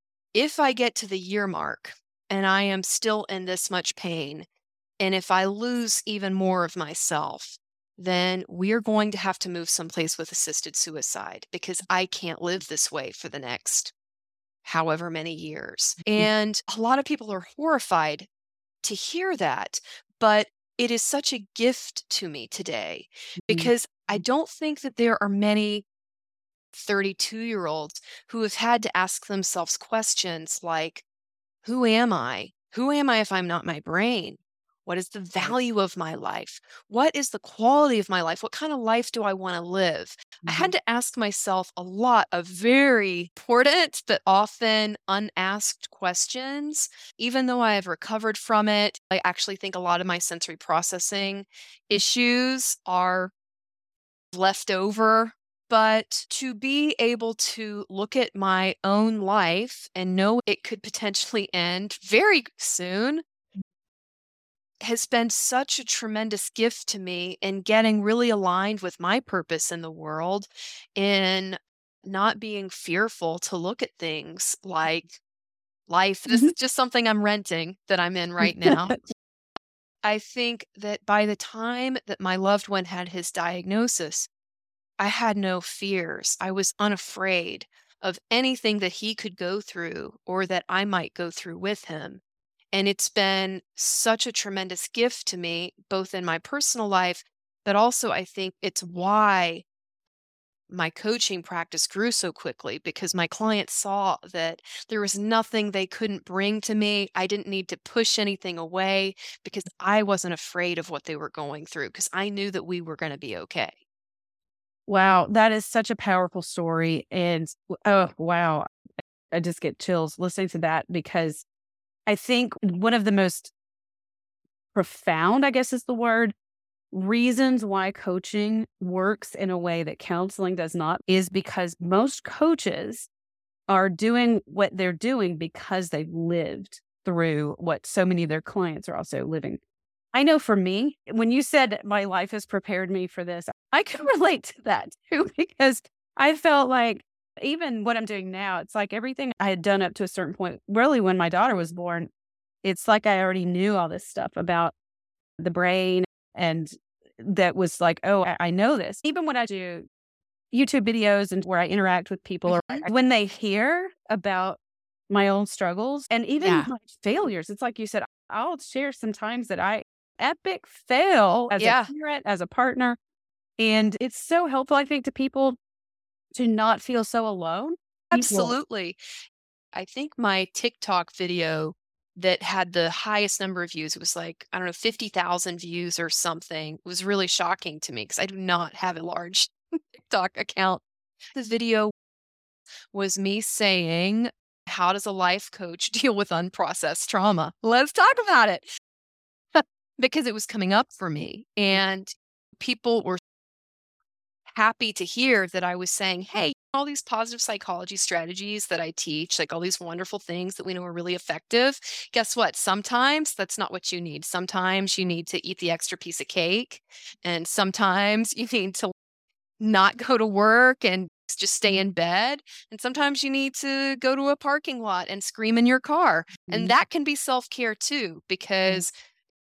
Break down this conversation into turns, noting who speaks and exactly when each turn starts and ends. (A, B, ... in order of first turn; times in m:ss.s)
0:00.3-0:04.5 A
0:05.0-0:13.9 A
0:14.6-0:18.3 A
0:18.8-0:25.8 A
0:23.4-0:23.7 B
0:26.7-0:31.0 A
0:31.6-0:53.3 A
0:40.4-0:40.7 B
0:54.3-1:03.2 A
1:04.8-1:15.2 A
1:15.9-1:18.9 A
1:18.4-1:19.0 B
1:20.0-1:24.3 A
1:25.0-1:32.2 A
1:32.7-1:39.6 A
1:40.7-1:53.8 A
1:54.9-1:58.7 B
1:59.3-2:01.4 B
2:02.1-2:03.5 B
2:04.7-2:06.3 B
2:06.9-2:13.1 B
2:13.7-2:19.6 B
2:20.1-2:32.1 B
2:32.6-2:34.7 B
2:35.4-2:39.9 B
2:40.5-2:53.0 B
2:42.5-2:42.8 A
2:46.4-2:46.7 A
2:51.5-2:51.9 A
2:53.6-2:55.6 B
2:56.3-2:58.5 B
2:58.1-2:59.0 A
2:59.7-3:10.8 A
3:11.3-3:11.9 A
3:12.9-3:18.6 A
3:19.5-3:23.2 A
3:24.5-3:38.9 A
3:39.6-3:48.9 A
3:46.4-3:46.7 B